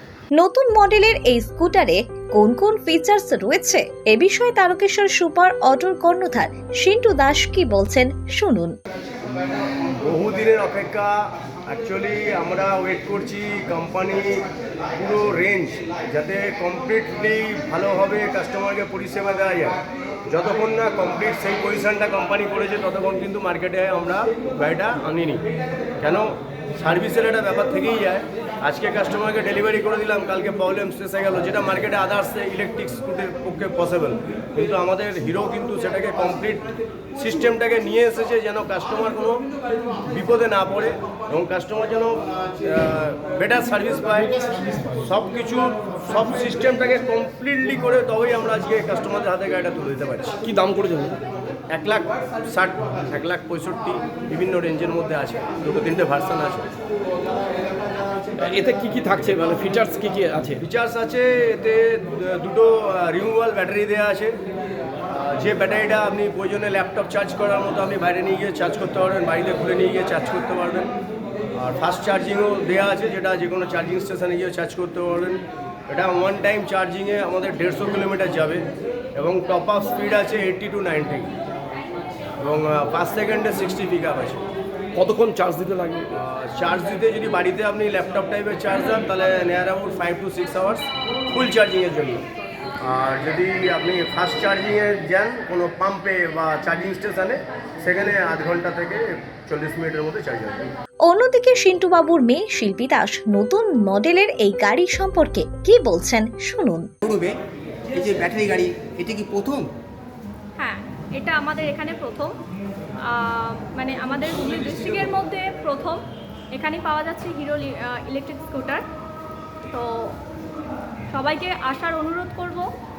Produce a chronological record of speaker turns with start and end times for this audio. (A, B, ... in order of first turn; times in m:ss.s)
0:00.3-0:08.7 A
0:10.4-0:11.0 B
0:11.7-0:14.2 B
0:15.0-0:19.8 B
0:20.3-0:25.4 B
0:26.0-0:26.3 B
0:26.8-0:36.6 B
0:37.2-0:39.4 B
0:40.1-0:42.2 B
0:42.7-0:44.3 B
0:45.0-0:50.3 B
0:50.4-0:51.2 C
0:51.7-0:56.7 B
0:58.4-1:00.6 C
1:00.8-1:04.3 B
1:05.4-1:10.9 B
1:11.6-1:18.6 B
1:19.2-1:21.3 B
1:22.4-1:24.4 B
1:25.0-1:26.1 C
1:26.2-1:32.2 B
1:32.9-1:40.7 B
1:41.1-1:46.9 A
1:47.0-1:49.7 D
1:50.6-1:52.3 E
1:53.1-1:56.0 E
1:56.6-1:58.8 E
1:59.7-2:00.2 E
2:01.1-2:02.7 E